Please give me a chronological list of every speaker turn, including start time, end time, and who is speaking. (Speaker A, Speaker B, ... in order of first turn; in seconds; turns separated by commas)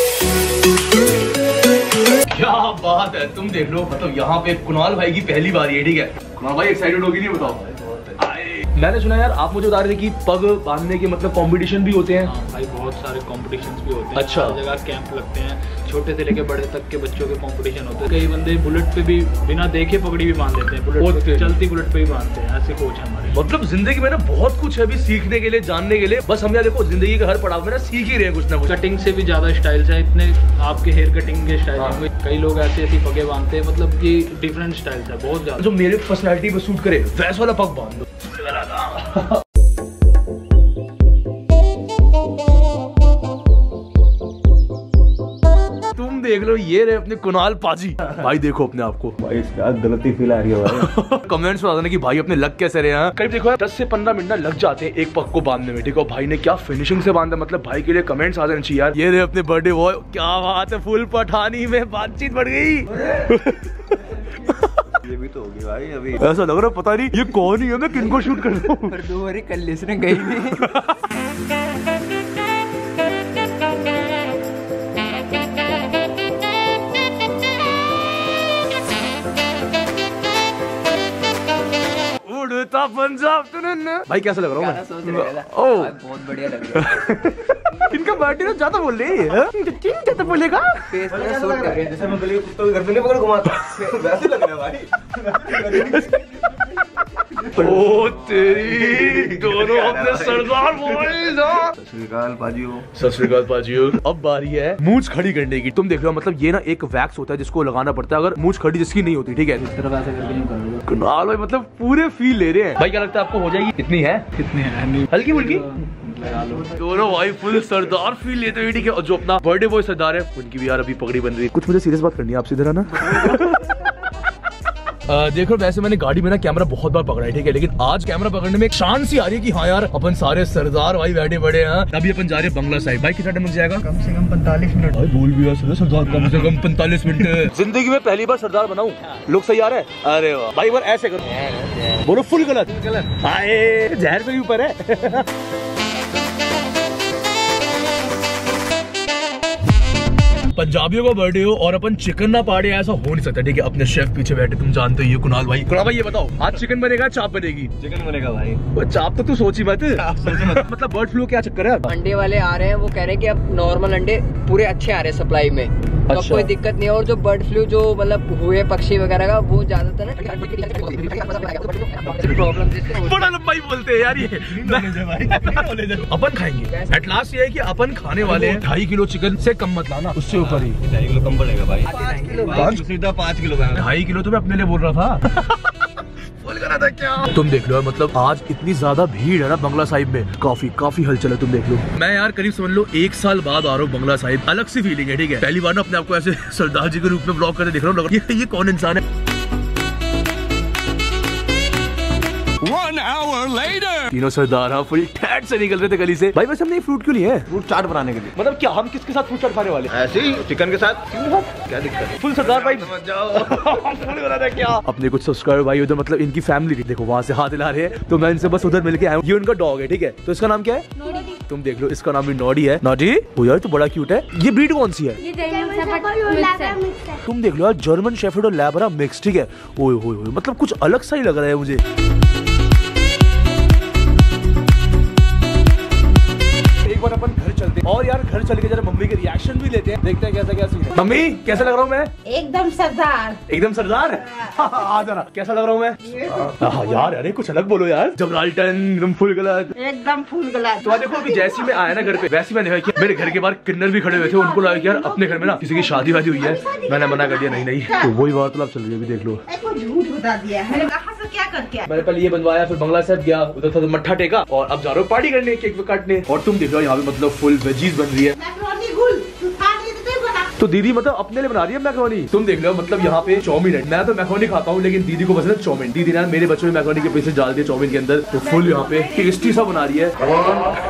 Speaker A: 2.3-12.3, Speaker B: 12.2-23.5, Speaker A: 14.1-14.6, Speaker A: 21.0-21.5, Speaker A: 23.3-28.7, Speaker B: 28.6-35.7, Speaker A: 31.8-32.0, Speaker A: 35.6-39.4, Speaker A: 45.9-49.2, Speaker C: 49.2-50.9, Speaker A: 50.6-65.0, Speaker C: 65.0-66.2, Speaker A: 66.2-69.0, Speaker D: 68.0-70.8, Speaker A: 70.5-70.9, Speaker A: 82.2-85.9, Speaker D: 84.5-87.0, Speaker A: 86.7-90.9, Speaker D: 90.9-92.0, Speaker C: 91.1-102.9, Speaker A: 95.7-96.2, Speaker A: 97.5-101.7, Speaker A: 102.9-109.7, Speaker B: 109.6-110.8, Speaker A: 110.8-114.3, Speaker B: 114.3-116.8, Speaker A: 115.1-115.6, Speaker A: 116.7-123.8, Speaker A: 125.1-134.0, Speaker C: 134.2-134.6, Speaker A: 134.8-145.3, Speaker A: 150.5-157.7, Speaker C: 157.8-158.6, Speaker A: 158.7-161.9, Speaker C: 159.9-160.7, Speaker D: 161.9-173.2, Speaker A: 166.1-166.5, Speaker A: 172.9-180.8, Speaker C: 174.4-175.8, Speaker C: 178.3-178.6, Speaker C: 180.3-183.8, Speaker D: 182.0-182.5, Speaker A: 182.5-182.8, Speaker A: 183.7-185.6, Speaker C: 186.4-187.3, Speaker A: 187.2-199.0, Speaker C: 202.6-203.8, Speaker E: 203.4-203.9, Speaker A: 204.0-207.5, Speaker C: 207.5-208.3, Speaker A: 208.3-209.9, Speaker C: 209.9-211.2, Speaker A: 211.1-225.2, Speaker C: 212.4-214.0, Speaker E: 225.2-226.8, Speaker F: 225.3-227.2, Speaker A: 227.2-231.8, Speaker A: 236.8-242.1, Speaker F: 242.2-243.4, Speaker A: 243.5-249.7, Speaker F: 246.0-246.9, Speaker F: 249.8-252.0, Speaker A: 250.8-259.4, Speaker F: 254.4-258.1, Speaker F: 259.5-261.9, Speaker A: 261.8-268.4, Speaker F: 268.4-270.5, Speaker A: 270.6-280.1, Speaker C: 280.3-280.6